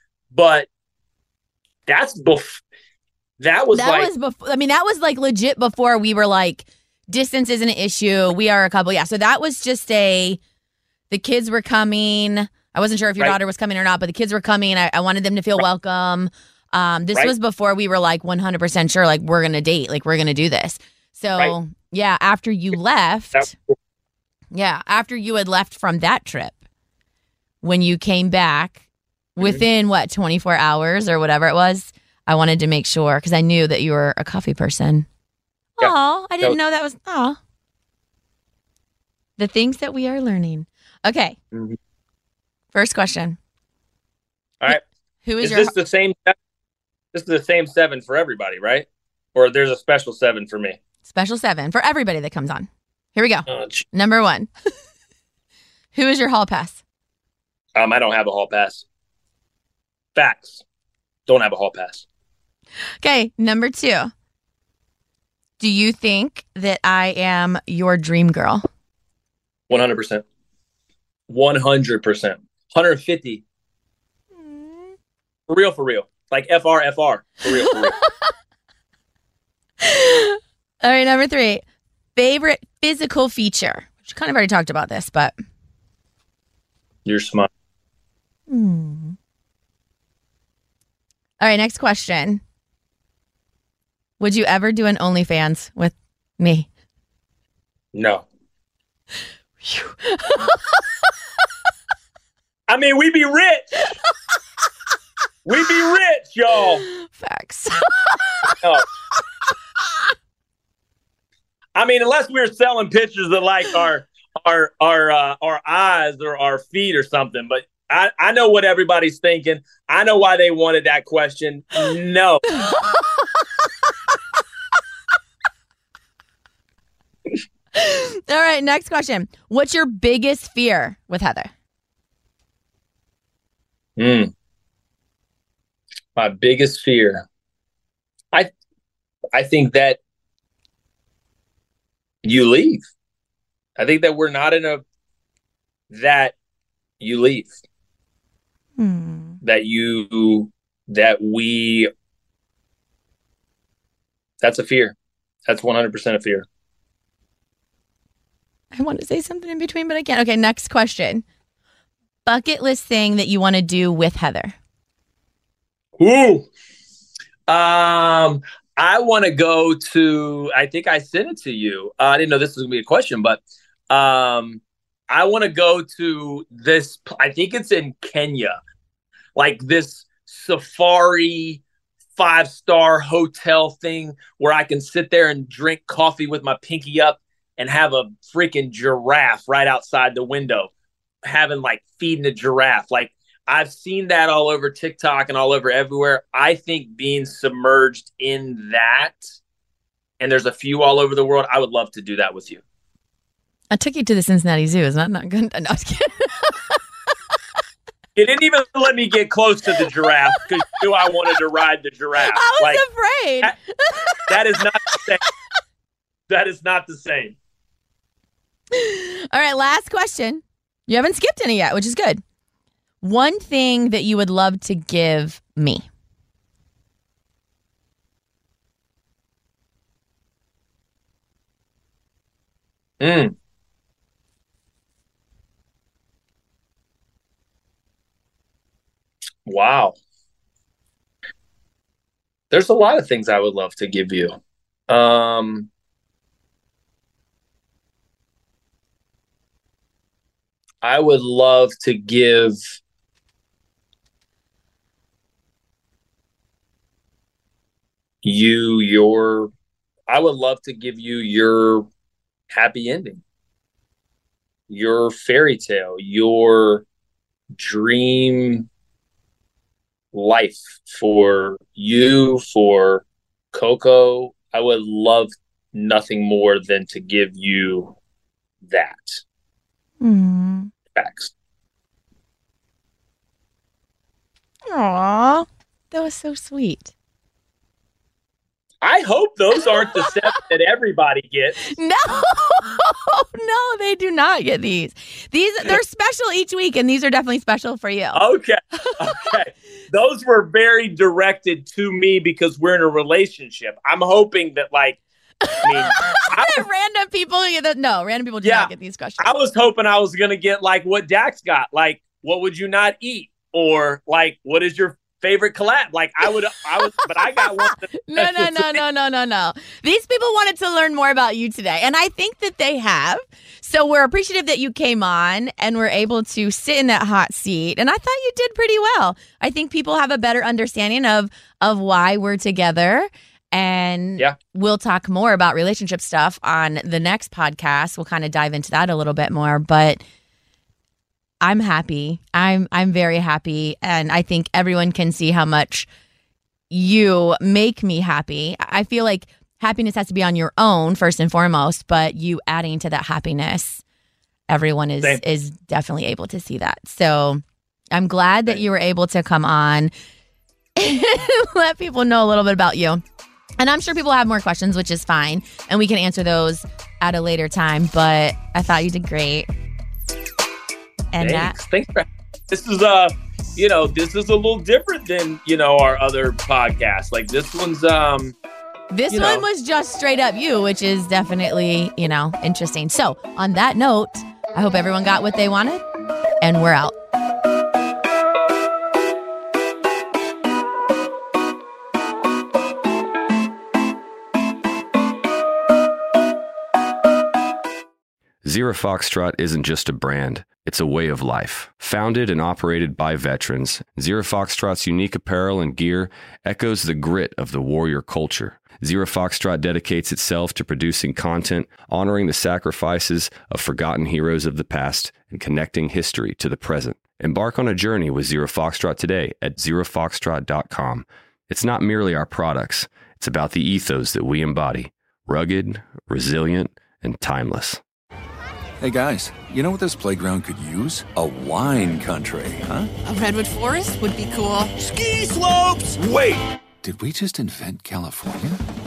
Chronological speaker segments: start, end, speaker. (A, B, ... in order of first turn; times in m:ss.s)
0:00.3-0:00.7 A
0:01.9-0:02.6 A
0:03.4-0:04.1 A
0:03.7-0:10.4 B
0:11.1-0:23.5 B
0:23.4-0:23.8 A
0:24.5-0:26.6 B
0:27.6-0:28.8 B
0:29.4-0:35.1 B
0:35.8-0:37.4 B
0:35.8-0:36.6 A
0:39.4-0:41.4 B
0:42.7-0:43.4 B
0:44.7-0:45.7 B
0:45.4-0:46.4 A
0:47.1-0:50.8 A
0:51.1-0:54.5 B
0:53.5-0:53.8 A
0:55.9-0:56.8 B
0:57.7-0:58.8 A
1:00.1-1:00.6 A
1:01.3-1:02.0 A
1:03.0-1:04.1 B
1:05.6-1:08.6 B
1:09.7-1:10.2 A
1:11.3-1:13.4 A
1:14.4-1:14.8 B
1:15.5-1:18.0 A
1:17.5-1:18.3 B
1:19.8-1:21.6 B
1:22.2-1:25.3 B
1:27.0-1:27.5 A
1:28.5-1:29.2 B
1:31.4-1:32.4 B
1:34.2-1:36.7 B
1:37.9-1:38.2 A
1:39.6-1:40.8 B
1:42.7-1:43.8 A
1:45.4-1:46.8 A
1:46.9-1:48.6 B
1:48.5-1:48.8 A
1:51.7-2:02.5 A
2:02.6-2:03.3 B
2:07.7-2:11.5 B
2:14.0-2:14.3 A
2:16.2-2:17.2 A
2:19.3-2:20.0 A
2:22.2-2:22.9 A
2:23.8-2:24.8 A
2:25.9-2:26.3 A
2:27.0-2:27.5 A
2:28.8-2:29.4 B
2:29.4-2:31.9 A
2:34.4-2:34.9 A
2:35.4-2:36.4 A
2:38.7-2:41.2 B
2:42.2-2:44.5 B
2:46.0-2:46.5 A
2:47.5-2:58.6 A
2:59.4-3:01.6 A
3:02.2-3:10.7 A
3:11.2-3:19.2 A
3:20.2-3:22.6 A
3:23.7-3:26.8 B
3:28.2-3:32.8 A
3:32.3-3:34.3 B
3:34.3-3:35.3 A
3:36.3-3:37.3 A
3:38.7-3:42.2 B
3:43.0-3:45.8 B
3:53.0-3:53.3 A
3:59.4-4:00.0 A
4:02.5-4:04.4 A
4:04.9-4:05.7 A
4:10.8-4:12.6 A
4:18.2-4:19.5 A
4:20.1-4:21.9 A
4:22.5-4:23.2 A
4:24.7-4:26.8 A
4:27.6-4:28.6 A
4:30.1-4:37.9 A
4:38.6-4:39.2 A
4:40.0-4:40.7 B
4:40.9-4:41.3 A
4:44.7-4:46.9 B
4:48.8-4:51.7 A
4:49.6-4:50.1 B
4:51.7-4:58.2 B
4:58.1-5:05.0 A
5:05.4-5:09.3 B
5:05.6-5:06.6 A
5:08.4-5:18.8 A
5:18.0-5:40.0 B
5:41.4-5:45.9 B
5:46.7-5:53.8 B
5:54.5-5:59.9 B
6:00.8-6:03.0 B
6:03.6-6:09.5 B
6:11.1-6:11.6 B
6:11.2-6:18.3 A
6:18.9-6:25.8 B
6:19.1-6:19.4 A
6:26.4-6:26.9 B
6:38.4-7:07.8 C
7:08.8-7:12.9 D
7:13.0-7:15.9 E
7:14.8-7:18.6 D